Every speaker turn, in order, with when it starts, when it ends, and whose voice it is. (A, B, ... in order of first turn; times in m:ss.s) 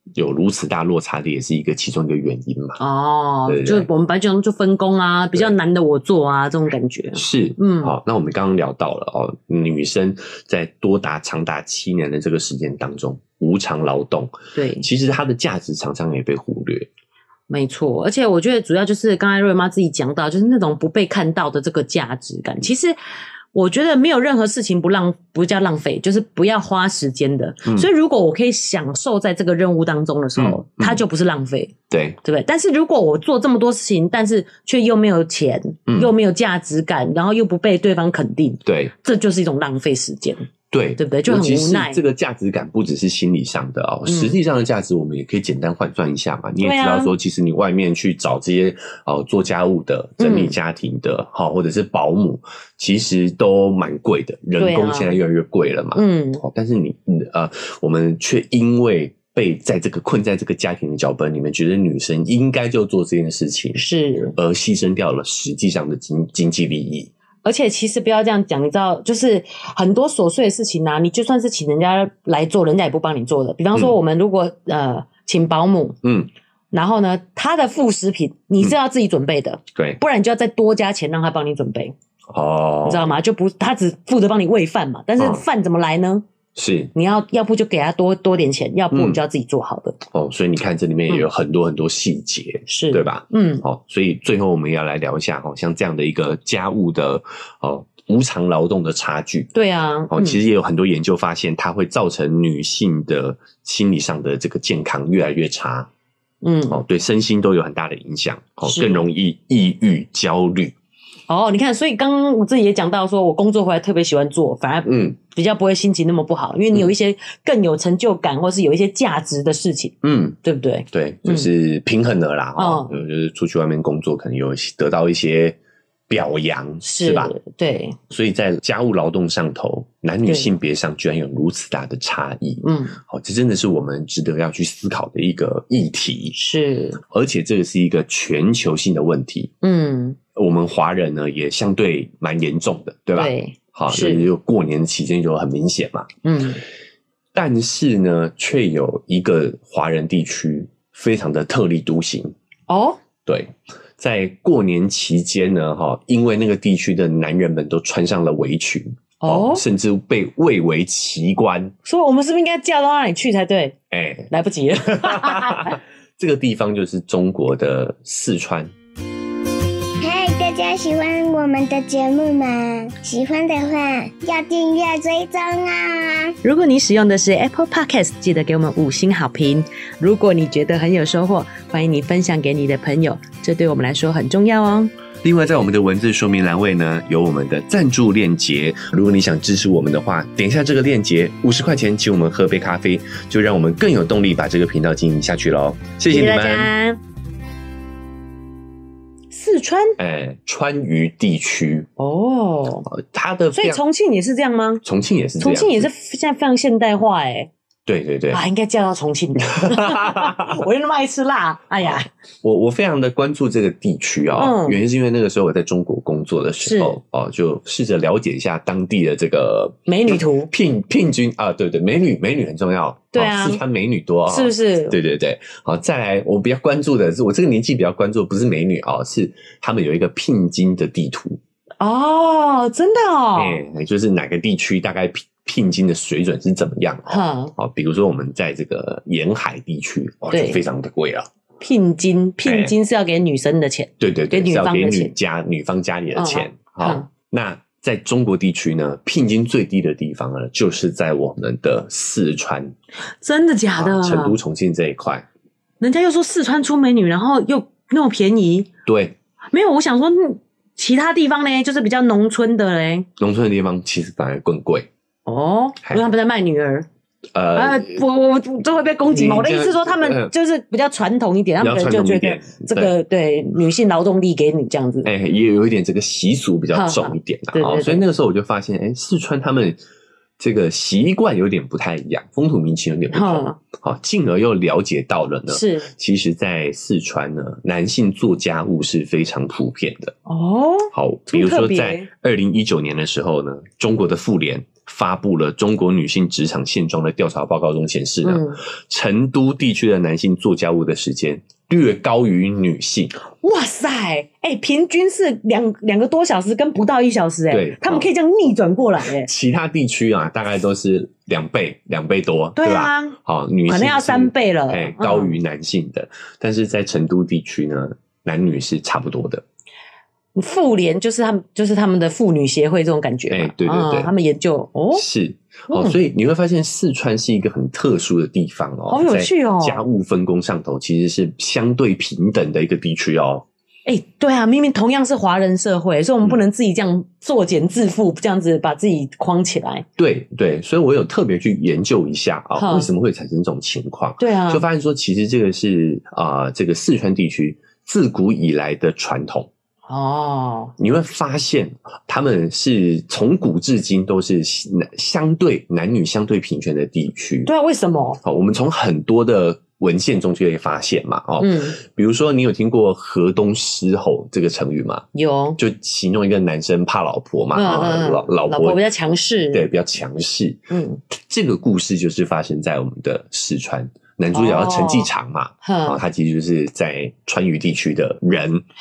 0:00.1-0:02.8 A
0:02.8-0:07.9 B
0:03.5-0:03.9 A
0:07.1-0:16.9 A
0:14.5-0:14.8 B
0:17.5-0:23.0 B
0:23.5-0:40.5 B
0:30.4-0:31.0 A
0:31.9-0:32.2 A
0:35.9-0:36.1 A
0:38.6-0:38.9 A
0:40.7-1:03.8 A
0:41.0-0:42.0 B
0:44.0-0:44.4 B
0:46.6-0:47.1 B
0:50.2-0:50.5 B
0:54.6-0:55.2 B
0:55.9-0:56.4 B
1:03.7-1:04.3 B
1:04.3-1:07.1 A
1:07.4-1:16.0 B
1:16.0-1:16.3 A
1:16.7-1:21.9 B
1:22.3-1:23.1 A
1:22.8-1:26.2 B
1:25.2-1:25.4 A
1:26.6-1:26.9 A
1:26.9-1:30.0 B
1:28.9-1:29.2 A
1:30.1-1:39.5 A
1:32.7-1:33.6 B
1:39.5-1:40.4 B
1:40.1-1:45.9 A
1:46.4-1:46.8 B
1:46.7-1:50.7 A
1:48.6-1:49.0 B
1:51.3-2:01.5 B
1:54.9-1:55.2 A
2:00.0-2:00.4 A
2:00.9-2:05.6 A
2:02.6-2:02.9 B
2:06.1-2:07.3 A
2:06.8-2:08.0 B
2:08.1-2:16.4 A
2:10.2-2:10.5 B
2:12.6-2:13.0 B
2:16.3-2:17.0 B
2:17.1-2:19.5 A
2:19.6-2:20.2 B
2:20.3-2:26.1 A
2:23.2-2:24.3 B
2:26.2-2:26.6 B
2:27.3-2:32.3 A
2:32.7-2:33.0 B
2:33.2-2:41.7 A
2:39.2-2:39.6 B
2:41.8-2:43.8 B
2:43.9-2:48.7 A
2:44.3-2:45.8 B
2:50.0-2:56.3 C
2:56.4-3:04.9 B
3:05.2-3:16.7 A
3:16.1-3:17.0 B
3:19.3-3:20.0 B
3:20.0-3:21.9 A
3:22.0-3:22.9 B
3:22.9-3:23.8 A
3:23.5-3:24.8 B
3:24.8-3:25.9 A
3:25.4-3:27.5 B
3:27.8-3:28.4 A
3:28.3-3:32.1 B
3:29.6-3:30.6 A
3:31.8-3:51.4 A
3:34.3-3:34.8 B
3:36.6-3:37.0 B
3:39.9-3:40.5 B
3:43.1-3:43.6 B
3:44.3-3:45.0 B
3:51.8-3:53.6 B
3:53.4-4:01.3 A
3:57.1-3:57.5 B
4:00.3-4:00.6 B
4:01.6-4:05.1 B
4:02.4-4:02.7 A
4:04.0-4:12.7 A
4:06.1-4:07.1 B
4:13.2-4:14.4 B
4:13.8-4:15.2 A
4:15.8-4:18.7 B
4:18.8-4:19.2 A
4:19.5-4:23.1 B
4:23.2-4:24.9 A
4:25.2-4:26.9 B
4:27.3-4:28.0 A
4:27.5-4:35.1 B
4:29.1-4:30.3 A
4:31.6-4:32.9 A
4:35.0-4:39.8 A
4:36.7-4:38.0 B
4:40.4-4:50.1 A
4:43.1-4:43.6 B
4:45.5-4:45.9 B
4:50.2-4:52.1 B
4:50.9-5:03.1 A
4:58.2-4:58.6 B
5:03.3-5:09.3 B
5:07.5-5:08.1 A
5:09.0-5:19.4 A
5:12.6-5:15.4 B
5:20.3-5:25.0 B
5:23.3-5:24.1 A
5:24.9-5:33.4 A
5:25.7-5:26.0 B
5:28.9-5:29.8 B
5:33.8-5:39.8 B
5:40.0-5:49.5 A
5:42.6-5:42.9 B
5:44.2-5:44.6 B
5:49.9-5:50.7 B
5:50.8-5:57.5 A
5:57.4-5:58.2 B
5:58.2-6:05.0 A
6:01.4-6:01.8 B
6:05.1-6:05.6 B
6:05.6-6:08.8 A
6:07.5-6:09.7 B
6:09.5-6:18.6 A
6:10.7-6:11.0 B
6:14.3-6:15.1 B
6:15.6-6:16.0 B